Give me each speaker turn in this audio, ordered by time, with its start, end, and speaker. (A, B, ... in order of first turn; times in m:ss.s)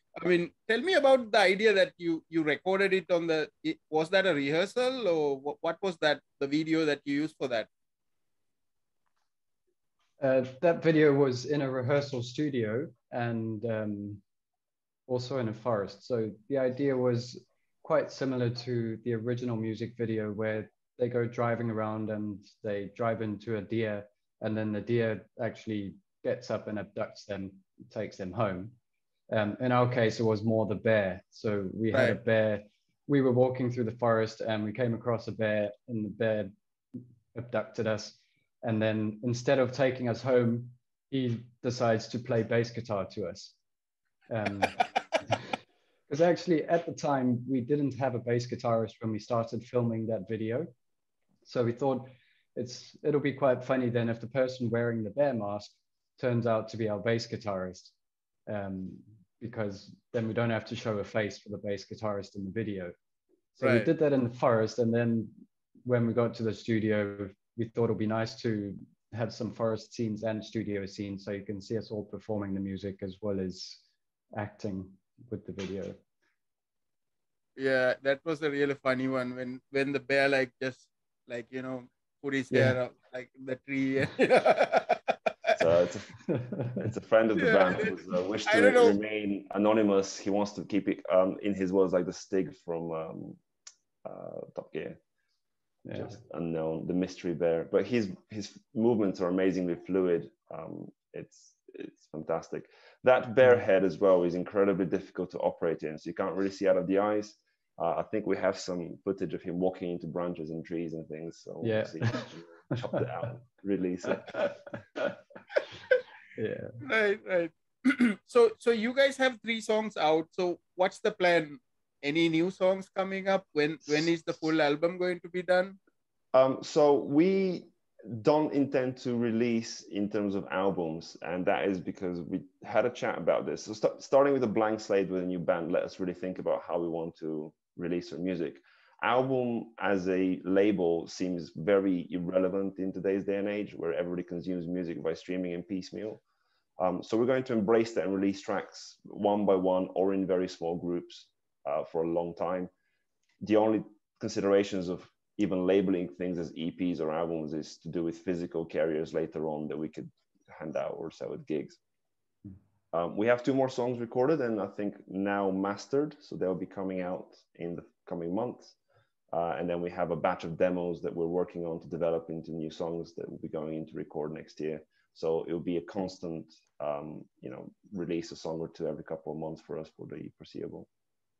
0:00.2-0:07.7 A
0:10.2-0:14.2 B
0:15.1-0:28.8 B
0:29.3-0:43.6 B
0:31.9-0:32.2 A
0:44.3-0:45.4 B
0:46.1-0:50.7 B
0:51.4-0:57.9 B
0:58.5-1:02.9 B
1:03.6-1:05.4 B
1:03.6-1:03.9 A
1:05.9-1:13.8 B
1:14.4-1:16.0 B
1:17.6-1:25.5 A
1:22.5-1:22.8 B
1:25.6-1:26.2 C
1:26.3-1:26.9 B
1:26.8-1:33.4 C
1:27.4-1:29.0 A
1:34.0-1:35.0 C
1:35.8-1:36.1 B
1:35.9-1:54.5 C
1:51.6-1:52.3 B
1:54.3-1:55.1 B
1:56.4-1:56.8 B
1:56.8-2:05.8 A
2:06.3-2:26.2 C
2:26.8-2:32.7 C
2:33.4-2:41.8 C
2:42.9-2:48.8 C
2:49.3-3:00.9 C